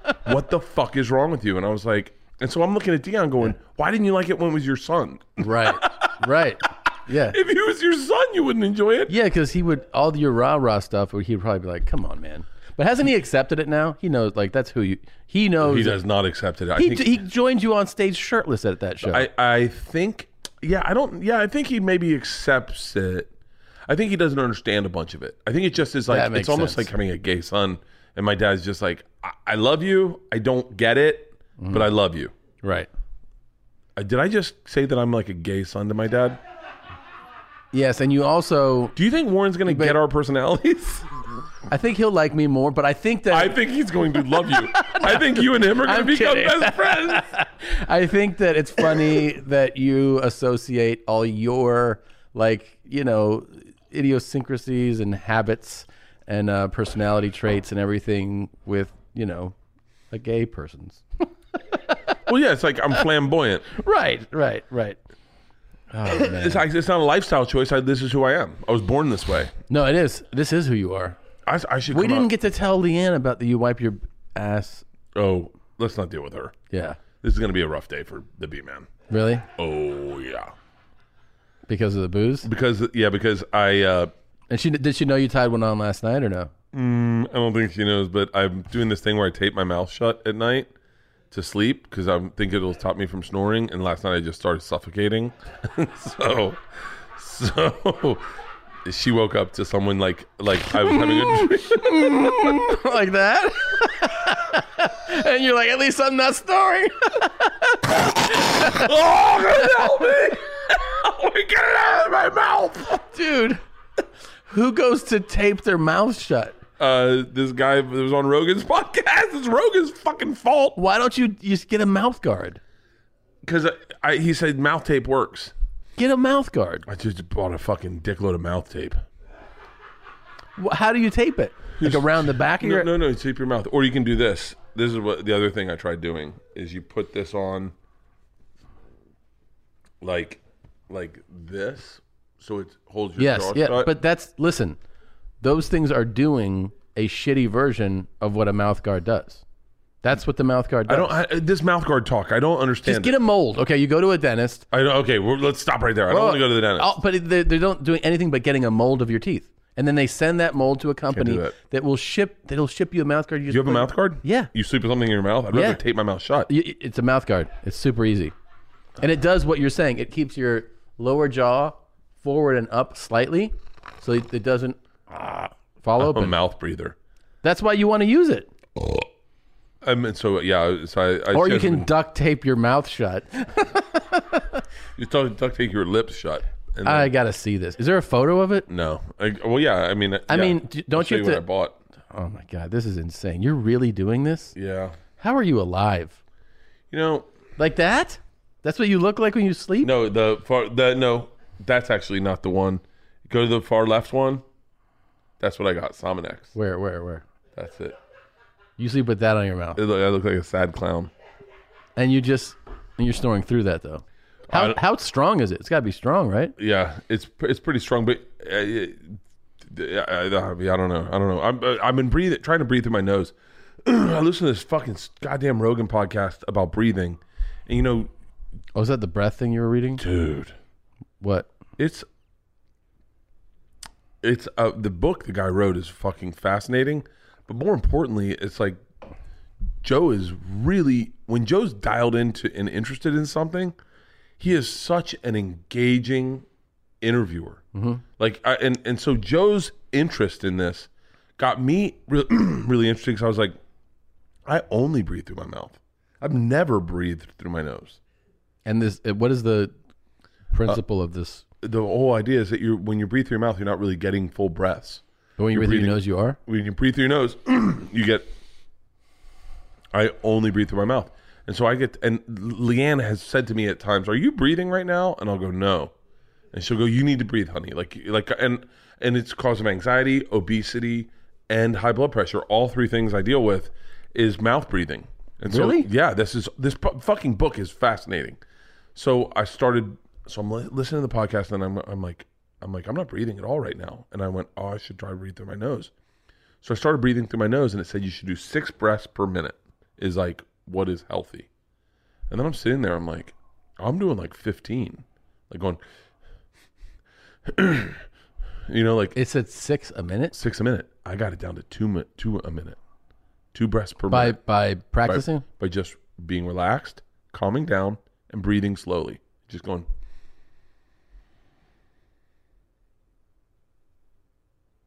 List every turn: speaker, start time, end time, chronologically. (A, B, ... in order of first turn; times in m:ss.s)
0:00.2-0:06.2 A
0:05.4-0:07.4 B
0:07.3-0:09.1 A
0:09.1-0:16.0 B
0:15.6-0:17.2 A
0:16.8-0:19.3 B
0:19.0-0:23.3 A
0:23.9-0:32.3 A
0:26.1-0:26.9 B
0:31.6-0:31.9 B
0:32.6-0:32.9 B
0:34.0-0:36.4 A
0:37.7-0:39.0 B
0:39.0-0:41.1 A
0:39.6-0:40.0 B
0:41.7-0:43.6 B
0:43.3-0:47.3 A
0:44.1-0:59.6 B
1:00.1-1:02.0 B
1:02.3-1:03.7 A
1:03.7-1:05.0 B
1:05.9-1:06.6 B
1:06.1-1:09.5 A
1:09.7-1:11.2 B
1:11.5-1:12.3 A
1:11.9-1:14.8 B
1:15.1-1:16.5 A
1:16.7-1:17.0 B
1:17.2-1:18.9 A
1:19.1-1:19.5 B
1:19.6-1:20.5 A
1:21.7-1:22.5 B
1:22.4-1:24.1 A
1:24.5-1:26.5 B
1:26.7-1:30.7 A
1:31.3-1:36.6 A
1:37.2-1:38.2 A
1:38.8-1:42.5 A
1:40.7-1:48.9 B
1:48.5-1:53.0 A
1:49.6-1:49.9 B
1:52.9-1:56.6 B
1:56.8-2:00.8 A
2:00.8-2:02.6 B
2:03.4-2:05.5 A
2:06.0-2:06.8 B
2:06.9-2:09.0 A
2:10.6-2:12.9 B
2:11.8-2:17.7 A
2:20.0-2:23.9 A
2:23.2-2:24.8 B
2:25.4-2:29.4 B
2:30.0-2:31.2 B
2:30.9-2:33.2 A
2:32.8-2:34.6 B
2:34.7-2:37.0 A
2:36.1-2:44.5 B
2:41.1-2:41.6 A
2:43.5-2:46.5 A
2:45.5-2:45.8 B
2:46.5-2:48.4 B
2:49.0-2:56.4 B
2:56.0-2:57.0 A
2:57.4-2:58.5 B
2:59.8-3:01.9 A
3:01.3-3:04.6 B
3:05.0-3:07.1 A
3:06.8-3:08.7 B
3:08.7-3:11.8 A
3:10.3-3:11.4 B
3:12.1-3:14.6 B
3:14.6-3:15.0 A
3:15.2-3:16.2 B
3:16.9-3:17.3 A
3:17.6-3:19.9 B
3:19.8-3:24.4 A
3:25.4-3:26.5 A
3:26.5-3:27.2 B
3:27.6-3:28.0 A
3:28.8-3:29.8 B
3:29.8-3:31.1 A
3:32.0-3:36.6 B
3:34.5-3:34.8 A
3:36.6-3:48.1 A
3:48.7-3:50.0 B
3:50.0-3:50.6 A
3:51.2-3:51.5 B
3:51.8-3:52.1 A
3:54.2-3:58.8 A
3:59.8-4:03.7 A
4:04.4-4:06.4 A
4:07.0-4:07.6 A
4:07.7-4:08.0 B
4:08.2-4:13.6 A
4:14.4-4:18.0 A
4:18.6-4:19.7 B
4:20.5-4:21.4 B
4:21.6-4:28.3 A
4:25.4-4:26.4 B
4:29.9-4:35.9 A
4:36.5-4:48.4 A
4:45.5-4:45.9 B
4:49.0-4:55.9 A
4:56.6-5:01.5 A
5:02.3-5:05.8 A
5:07.5-5:08.0 A
5:08.7-5:09.2 A
5:09.1-5:10.4 B
5:10.3-5:12.8 A
5:13.5-5:14.4 A
5:14.1-5:15.4 B
5:15.0-5:19.9 A